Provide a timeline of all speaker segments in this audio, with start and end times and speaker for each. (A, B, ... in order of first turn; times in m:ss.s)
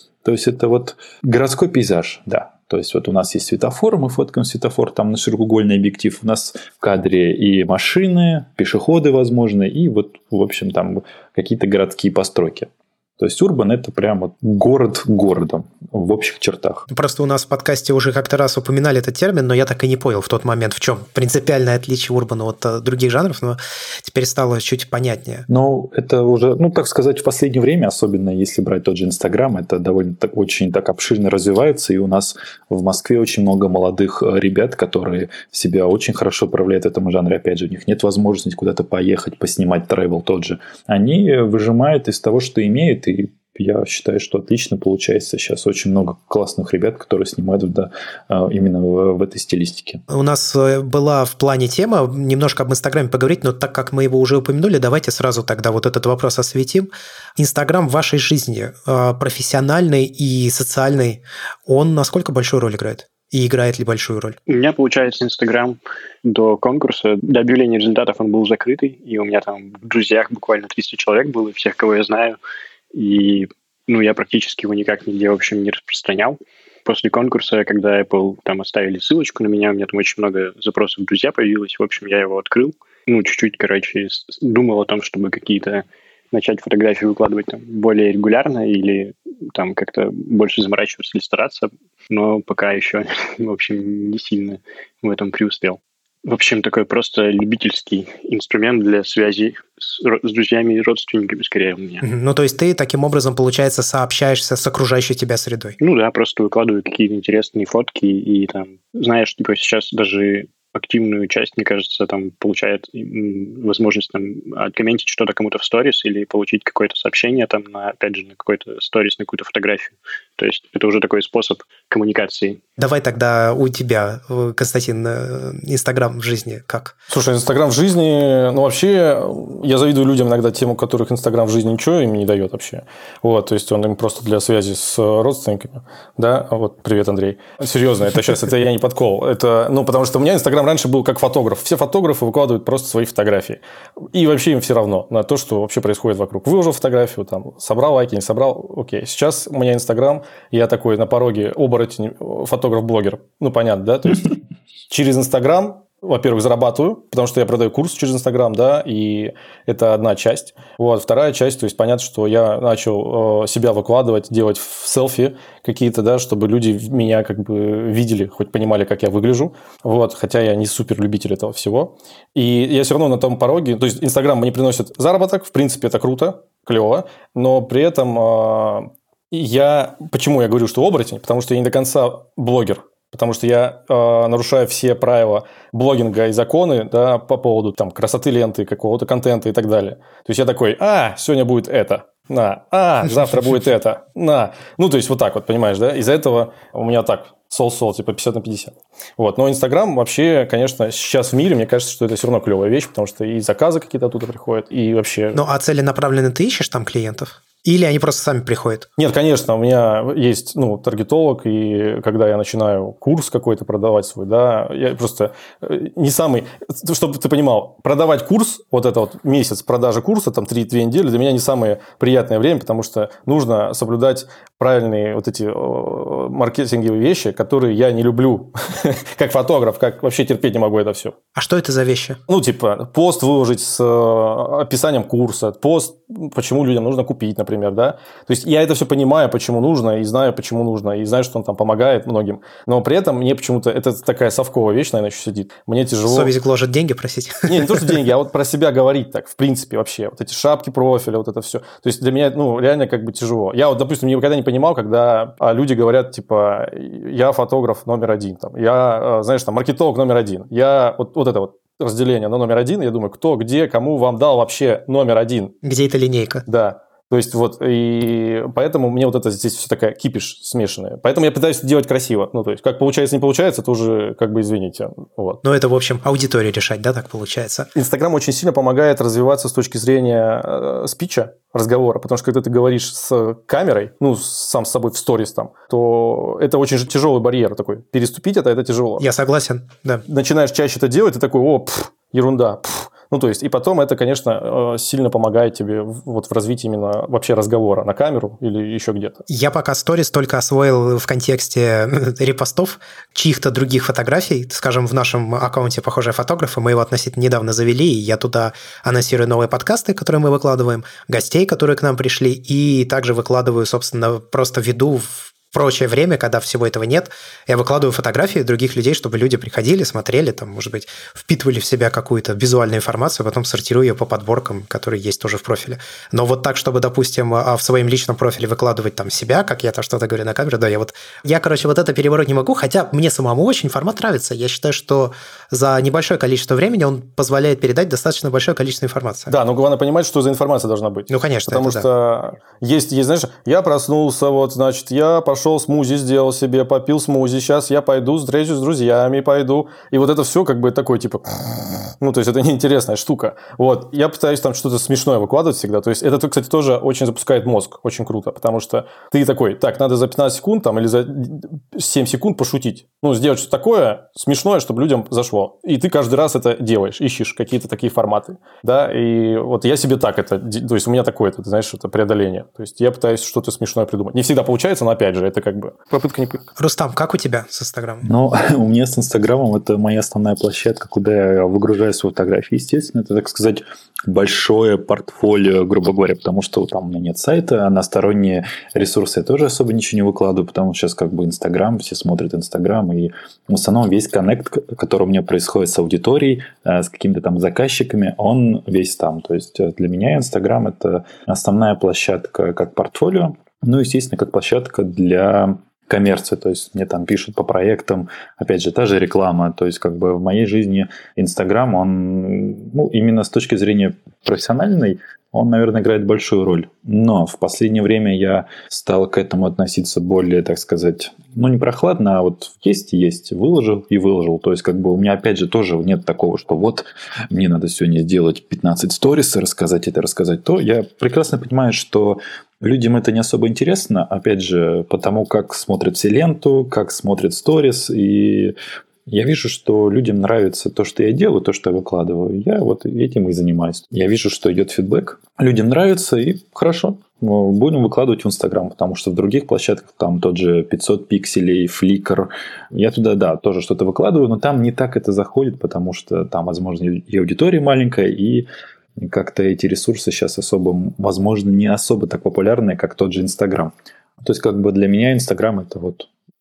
0:00.2-0:16.9 A
0:16.9-0:25.5 B
0:25.5-0:50.0 A
0:50.1-1:04.4 B
1:04.5-1:12.4 C
1:12.9-1:42.0 C
1:42.0-1:45.8 B
1:45.8-2:02.6 C
2:02.8-2:07.0 B
2:07.1-2:23.6 D
2:24.1-2:34.3 D
2:34.9-3:25.4 D
3:25.4-3:28.9 B
3:29.0-3:51.2 D
3:51.4-3:52.2 B
3:52.3-4:06.3 D
4:06.1-4:07.7 B
4:07.5-4:25.5 D
4:25.6-4:26.4 B
4:26.5-4:35.4 D
4:35.4-4:37.7 B
4:37.8-4:49.1 D
4:49.0-4:50.0 B
4:50.1-4:59.2 D
4:59.3-5:39.3 B
5:39.3-6:16.5 D
5:41.1-5:41.9 B
6:16.6-6:18.1 B
6:18.0-7:18.5 A
7:19.1-7:46.1 A